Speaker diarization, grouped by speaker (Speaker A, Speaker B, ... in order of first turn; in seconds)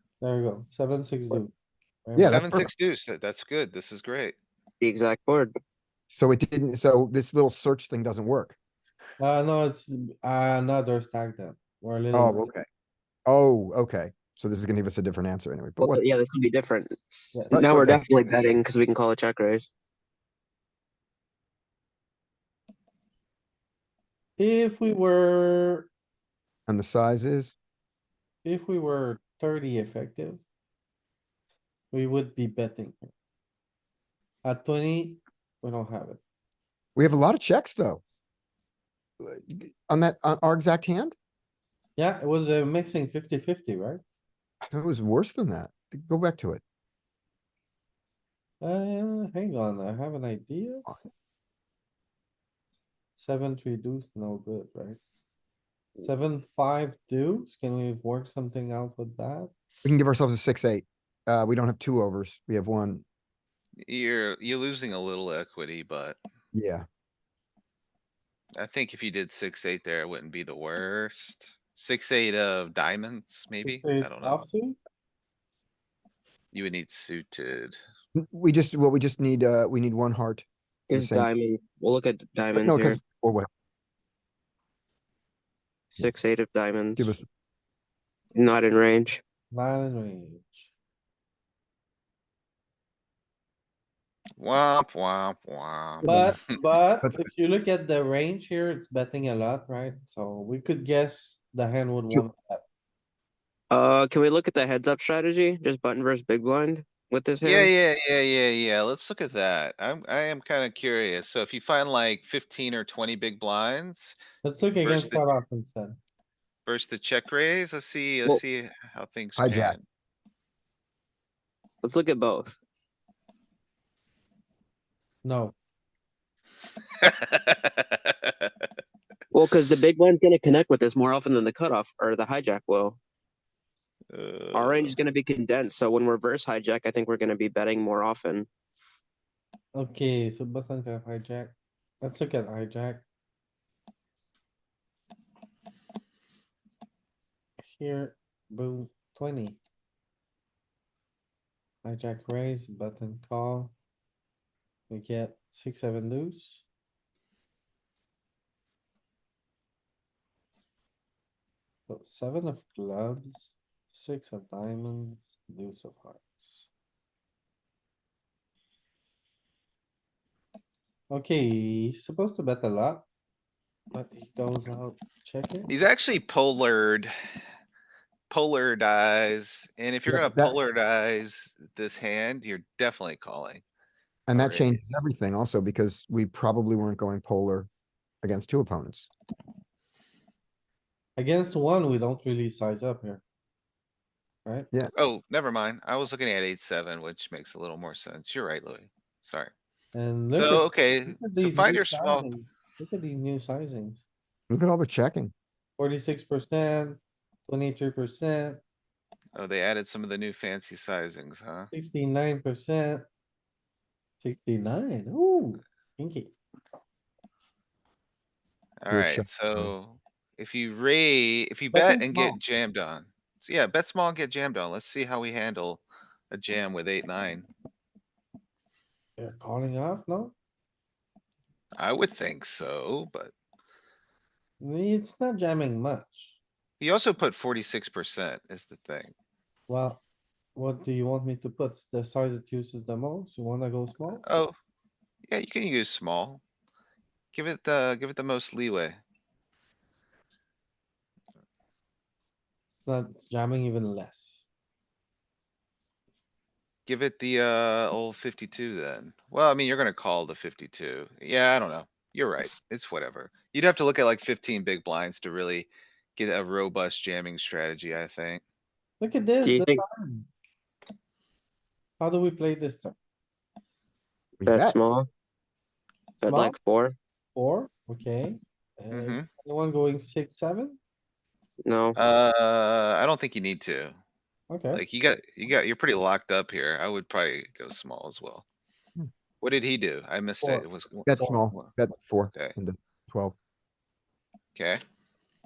Speaker A: 0.2-1.5, 2.1-2.5, 9.2-12.5, 17.3-18.0, 24.4-25.9, 28.4-30.4, 31.9-33.1, 34.4-36.2, 42.0-44.0, 48.6-50.9, 53.2-55.0, 56.0-59.5, 73.6-74.8, 89.5-90.7, 96.0-102.6, 114.4-116.0, 125.2-125.6, 139.8-143.1, 147.6-149.6, 151.8-153.7, 154.9-156.7, 161.9-166.7, 171.1-173.1, 173.9-175.7, 191.2-193.2, 194.4-194.7, 199.9-204.0, 205.8-208.6, 211.7-213.1, 214.2-216.4, 221.7-222.4, 229.2-230.3, 234.6-236.4, 239.7-240.0, 240.6-244.2, 252.9-254.4, 269.0-270.3, 272.0-273.0, 276.2-276.6, 277.4-280.8, 284.5-284.8, 290.4-291.4
Speaker B: 2.2-2.7, 6.1-8.6, 12.1-12.7, 13.3-16.0, 17.5-18.1, 26.7-27.6, 37.0-38.0, 39.2-41.2, 44.7-46.6, 59.8-63.0, 66.5-66.9, 78.2-81.3, 82.5-83.5, 87.0-87.2, 96.0-96.4, 97.0-97.3, 119.4-119.8, 180.1-180.6, 184.3-187.7, 188.2-189.1, 204.5-205.3, 218.9-219.7, 274.4-274.8, 291.1-293.4
Speaker C: 2.2-4.3, 63.8-66.2, 68.6-74.5, 76.5-77.8, 94.4-96.3, 107.4-114.2, 114.8-115.2, 116.7-119.8, 127.0-128.5, 134.1-135.0, 175.7-177.1, 178.3-183.6, 184.3-184.8, 194.9-199.5, 200.3-202.3, 209.3-211.7, 218.8-227.5, 231.8-233.3, 236.8-239.1, 244.1-244.5, 245.3-246.4, 247.3-249.0, 256.9-268.4, 278.9-279.3, 282.0-283.9, 284.7-288.4, 289.4-291.7
Speaker D: 4.8-5.5, 15.8-19.7, 80.9-83.0, 85.9-87.1, 88.3-89.2, 103.7-107.7, 121.8-122.5, 129.3-133.0, 134.5-138.5, 269.4-269.8, 274.5-275.1, 276.2-277.0, 281.6-282.0